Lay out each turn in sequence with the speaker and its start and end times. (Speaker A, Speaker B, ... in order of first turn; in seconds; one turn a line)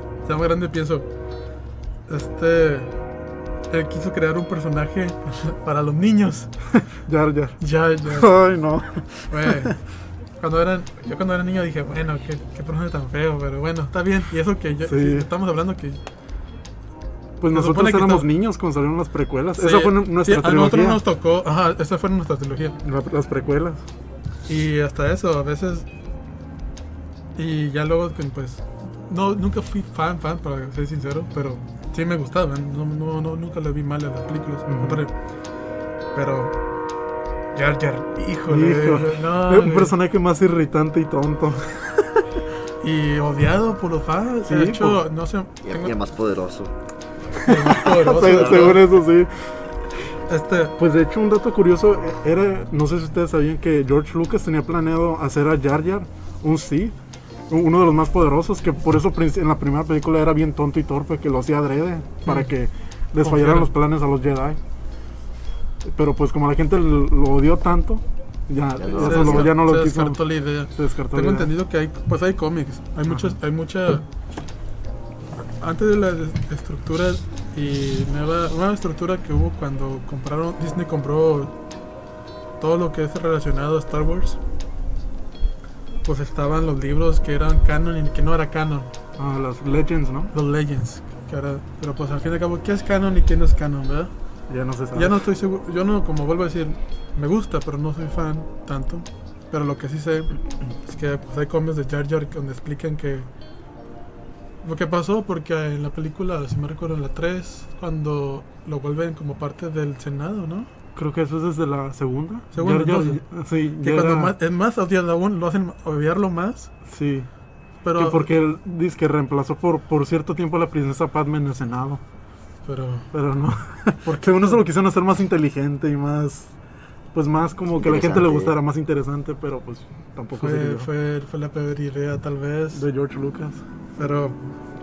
Speaker A: 0.2-1.1
Speaker A: 2.1-2.9
Speaker A: 3.7-6.5
Speaker B: 6.9-9.7
Speaker A: 7.6-8.3
Speaker A: 9.3-9.8
Speaker A: 10.4-16.0
Speaker B: 14.8-15.3
Speaker B: 17.4-21.0
Speaker A: 17.5-18.3
Speaker A: 19.6-22.8
Speaker B: 22.8-23.8
Speaker A: 24.5-25.9
Speaker A: 27.4-35.1
Speaker B: 34.7-35.0
Speaker A: 36.1-36.5
Speaker A: 37.5-39.9
Speaker B: 38.5-42.3
Speaker A: 42.8-45.9
Speaker B: 44.5-45.0
Speaker C: 45.6-46.7
Speaker B: 47.4-49.3
Speaker A: 47.4-48.8
Speaker C: 48.1-48.8
Speaker A: 50.3-50.8
Speaker B: 50.8-57.0
Speaker B: 57.5-64.6
Speaker A: 62.2-62.5
Speaker A: 63.2-63.7
Speaker B: 65.8-71.5
Speaker C: 68.8-69.5
Speaker A: 69.0-74.1
Speaker B: 73.1-73.4
Speaker A: 75.6-81.5
Speaker A: 82.6-84.4
Speaker A: 86.0-88.9
Speaker B: 89.2-90.3
Speaker A: 90.3-94.1
Speaker B: 94.5-95.3
Speaker A: 94.9-103.3
Speaker A: 104.6-110.7
Speaker B: 110.9-114.3
Speaker A: 112.5-113.2
Speaker A: 113.8-116.7
Speaker B: 116.8-117.3
Speaker A: 117.8-118.3
Speaker B: 118.0-122.0
Speaker A: 122.7-123.1
Speaker B: 123.1-126.5
Speaker A: 124.0-124.6
Speaker B: 127.1-130.9
Speaker C: 127.8-128.6
Speaker A: 130.4-132.8
Speaker B: 132.7-133.6
Speaker A: 134.0-134.4